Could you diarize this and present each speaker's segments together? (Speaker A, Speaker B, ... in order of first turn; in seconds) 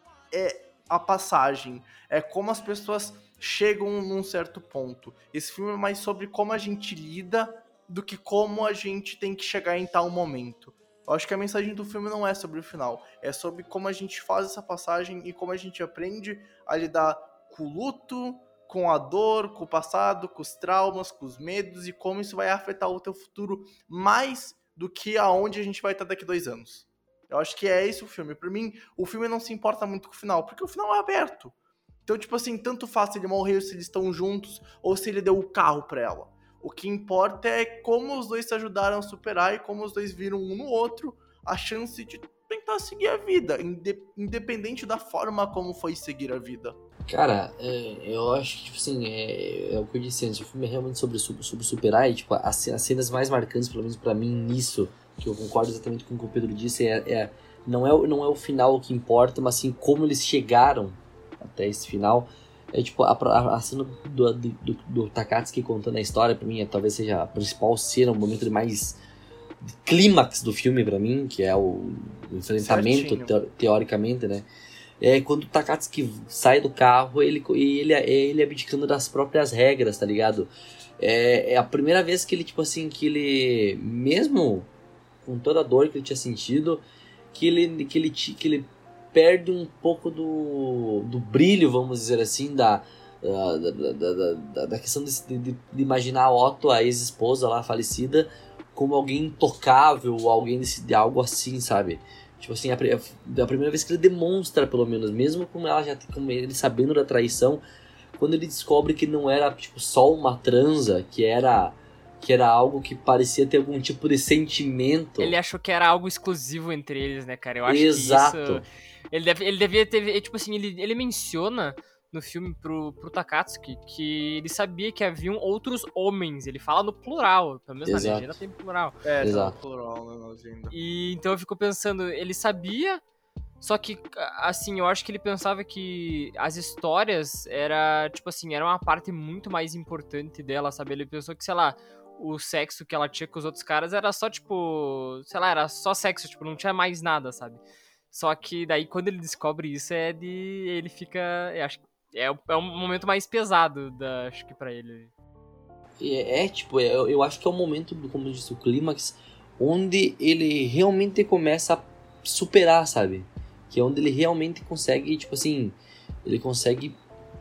Speaker A: 0.3-31.5, 32.0-46.8, 72.6-73.3, 129.0-130.7
Speaker B: 47.1-69.0, 69.6-74.5, 75.0-84.7, 85.2-107.6, 108.2-115.3, 117.6-118.6, 127.8-128.3, 129.2-129.5, 156.0-167.0
Speaker C: 115.2-129.0, 130.7-133.0, 133.6-155.1